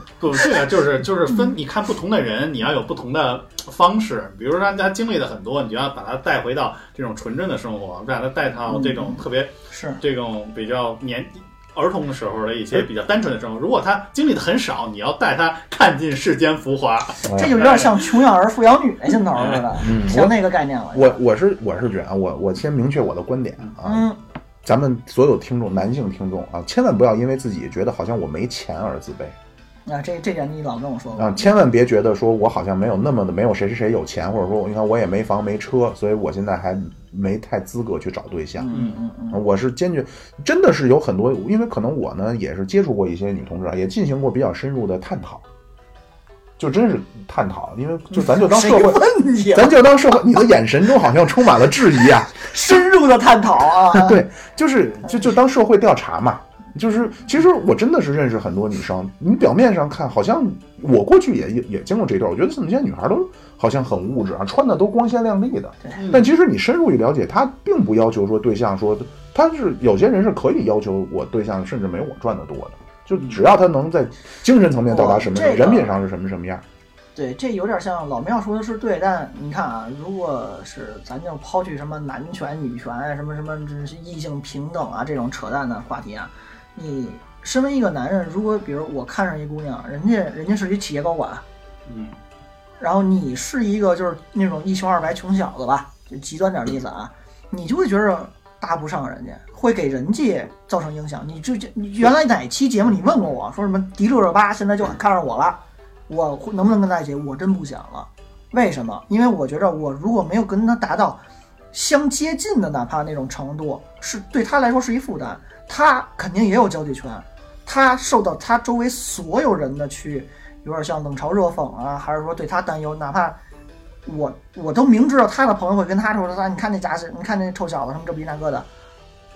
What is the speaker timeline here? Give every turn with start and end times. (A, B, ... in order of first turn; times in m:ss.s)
0:00.2-0:18.2 A
0:08.7-0:10.0 B
0:17.2-0:17.6 C
0:17.3-0:21.2 B
0:19.4-0:19.7 A
0:19.8-0:24.1 C
0:23.8-0:24.2 B
0:24.6-0:29.4 C
0:29.9-0:31.5 B
0:31.1-0:38.7 C
0:38.6-0:39.4 B
0:39.3-0:45.4 C
0:46.6-0:52.5 C
0:48.1-0:49.8 B
0:52.4-0:54.2 B
0:53.9-1:16.6 C
1:06.0-1:06.3 A
1:13.1-1:13.4 A
1:14.9-1:15.9 B
1:17.1-1:31.4 B
1:31.9-1:32.2 A
1:32.8-1:51.2 B
1:51.7-2:03.4 B
2:04.0-2:08.7 B